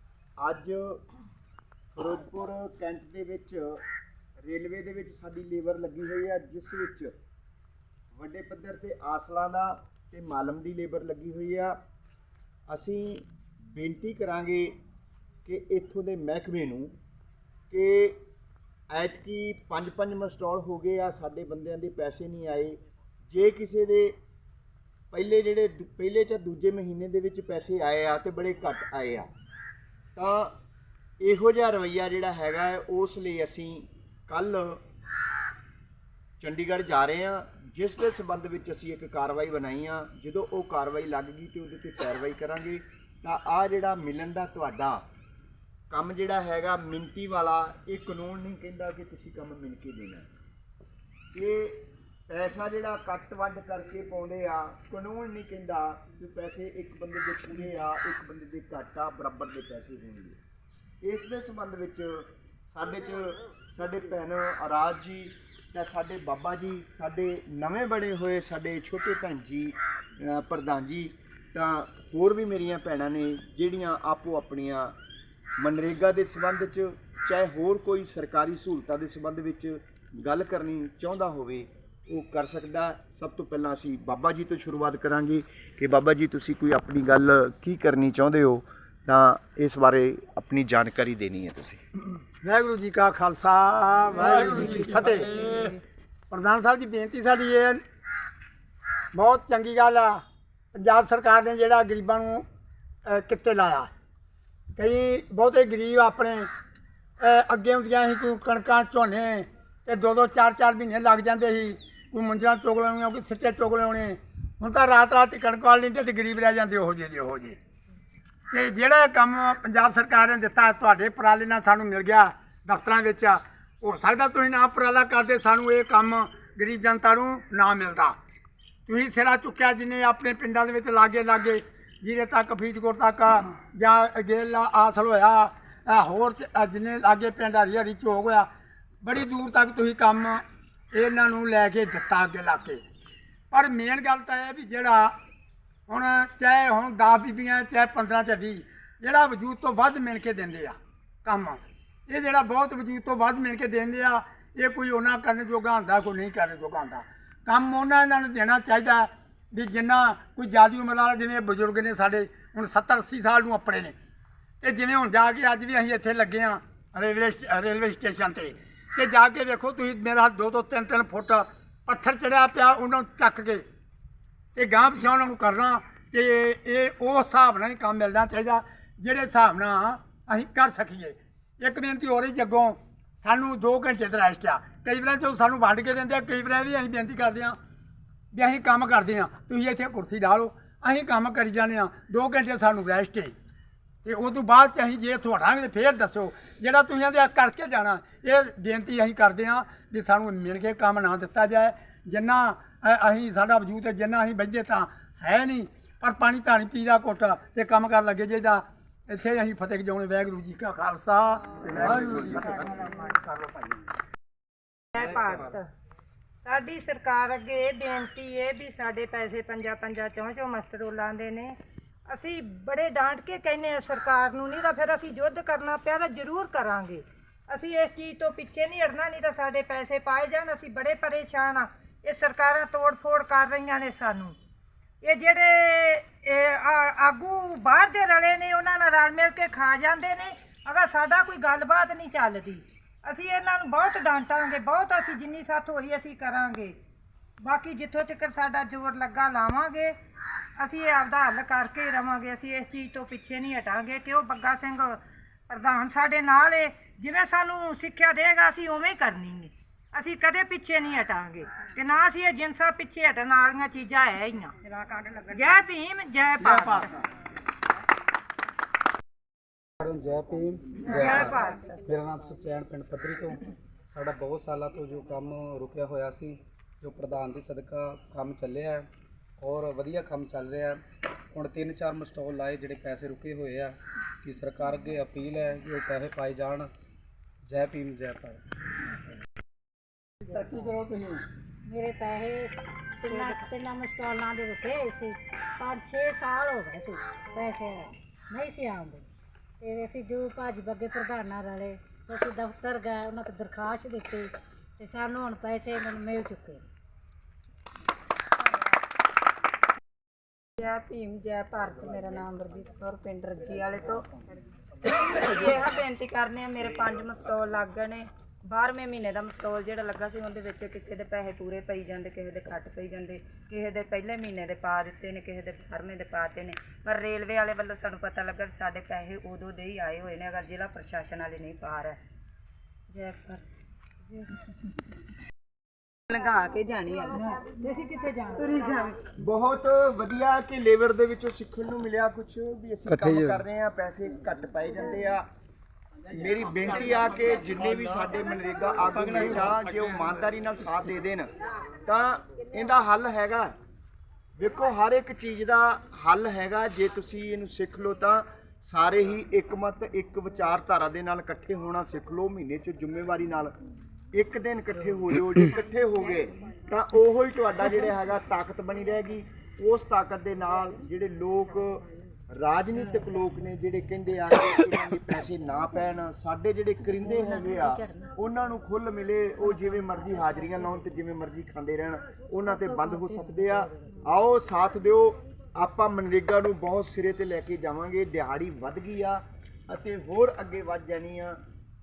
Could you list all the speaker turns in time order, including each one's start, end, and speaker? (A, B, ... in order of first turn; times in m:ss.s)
0:00.4-0:01.0 A
0:01.9-0:03.8 A
0:04.4-0:07.1 A
0:08.1-0:11.7 A
0:12.7-0:14.8 A
0:15.4-0:16.9 A
0:17.7-0:18.2 A
0:18.9-0:24.2 A
0:25.1-0:29.3 A
0:30.1-0:30.6 A
0:31.2-0:34.8 A
0:36.4-0:45.0 A
0:45.9-0:50.3 A
0:51.3-1:00.4 A
1:01.0-1:15.0 A
1:15.6-1:31.8 A
1:32.4-1:35.3 B
1:36.3-1:37.8 B
1:39.1-1:40.2 B
1:40.7-1:42.4 B
1:43.0-1:43.9 B
1:44.8-1:46.5 B
1:47.2-1:57.6 B
1:58.5-2:08.2 B
2:08.9-2:18.5 B
2:19.0-2:22.8 B
2:23.5-2:25.1 B
2:25.9-2:43.9 B
2:44.6-2:53.6 B
2:54.5-3:07.6 B
3:08.3-3:13.3 B
3:14.0-3:32.7 B
3:32.2-3:33.2 C
3:33.2-3:33.9 B
3:34.9-3:35.7 C
3:36.4-3:41.6 C
3:42.1-3:54.3 C
3:55.0-4:06.7 C
4:07.4-4:09.9 C
4:10.6-4:26.9 C
4:26.4-4:26.9 B
4:29.8-4:38.8 D
4:30.9-4:31.7 C
4:39.4-4:40.8 D
4:41.3-4:46.7 D
4:47.4-4:48.4 D
4:50.2-4:51.2 B
4:51.6-4:59.0 E
4:59.6-5:06.6 E
5:10.6-5:14.1 F
5:14.8-5:32.0 F
5:32.9-5:33.4 F
5:36.1-5:37.5 F
5:37.4-5:38.5 C
5:38.4-5:39.0 F
5:39.2-5:45.2 A
5:42.9-5:43.4 D
5:46.1-5:51.3 A
5:51.8-5:53.5 A
5:54.4-6:03.5 A
6:04.1-6:31.4 A